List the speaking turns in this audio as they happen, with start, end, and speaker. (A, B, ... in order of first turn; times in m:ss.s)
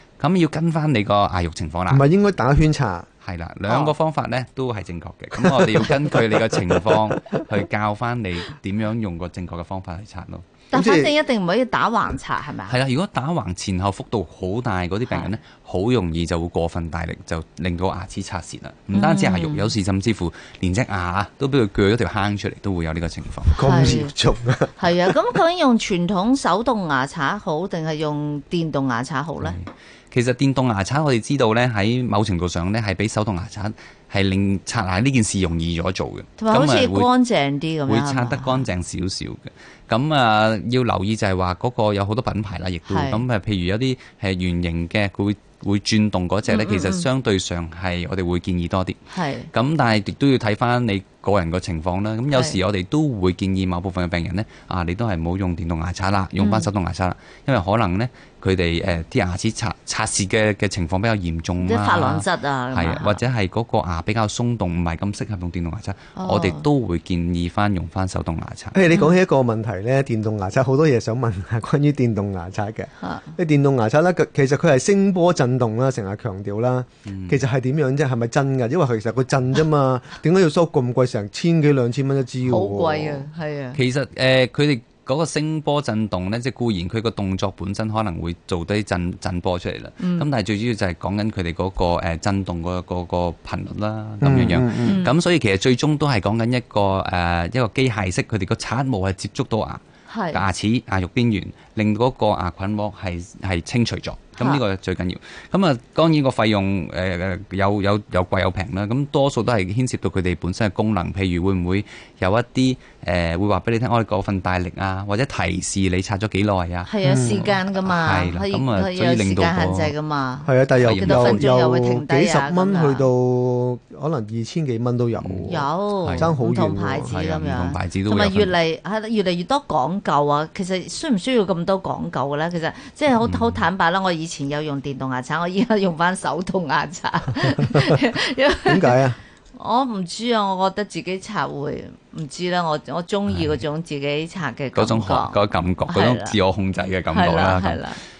0:00.2-0:02.0 A
0:01.9-0:03.1 B
0:03.2-0:10.5 A
0:03.7-0:03.9 C
0:05.4-0:07.4 B
0:10.7-0:12.8 C
0:10.7-0:11.2 B
0:12.7-0:24.0 A
0:18.9-0:19.7 C
0:23.5-0:25.2 B
0:23.6-0:24.1 C
0:24.8-0:29.6 C
0:29.4-0:37.1 A
0:36.4-0:38.7 C
0:37.9-0:49.0 A
0:42.9-0:43.2 C
0:46.5-0:47.1 C
0:49.1-0:49.5 C
0:49.5-1:08.8 A
0:52.3-0:52.6 C
0:56.4-0:56.7 C
1:01.6-1:03.2 C
1:06.2-1:06.6 C
1:08.7-1:23.3 B
1:13.0-1:13.3 C
1:17.1-1:17.4 A
1:22.4-1:23.8 C
1:23.8-1:59.9 A
1:30.0-1:30.3 C
1:34.2-1:35.0 B
1:34.8-1:35.1 C
1:40.1-1:40.4 C
1:56.9-2:03.1 C
1:57.0-1:57.5 B
2:00.5-2:07.2 B
2:00.8-2:01.4 A
2:05.2-2:05.5 A
2:05.5-2:19.0 C
2:06.0-2:06.4 A
2:07.0-2:08.6 A
2:13.2-2:13.6 A
2:18.6-2:19.2 B
2:19.6-2:26.4 C
2:23.3-2:23.6 A
2:24.8-2:27.8 A
2:27.1-2:28.0 C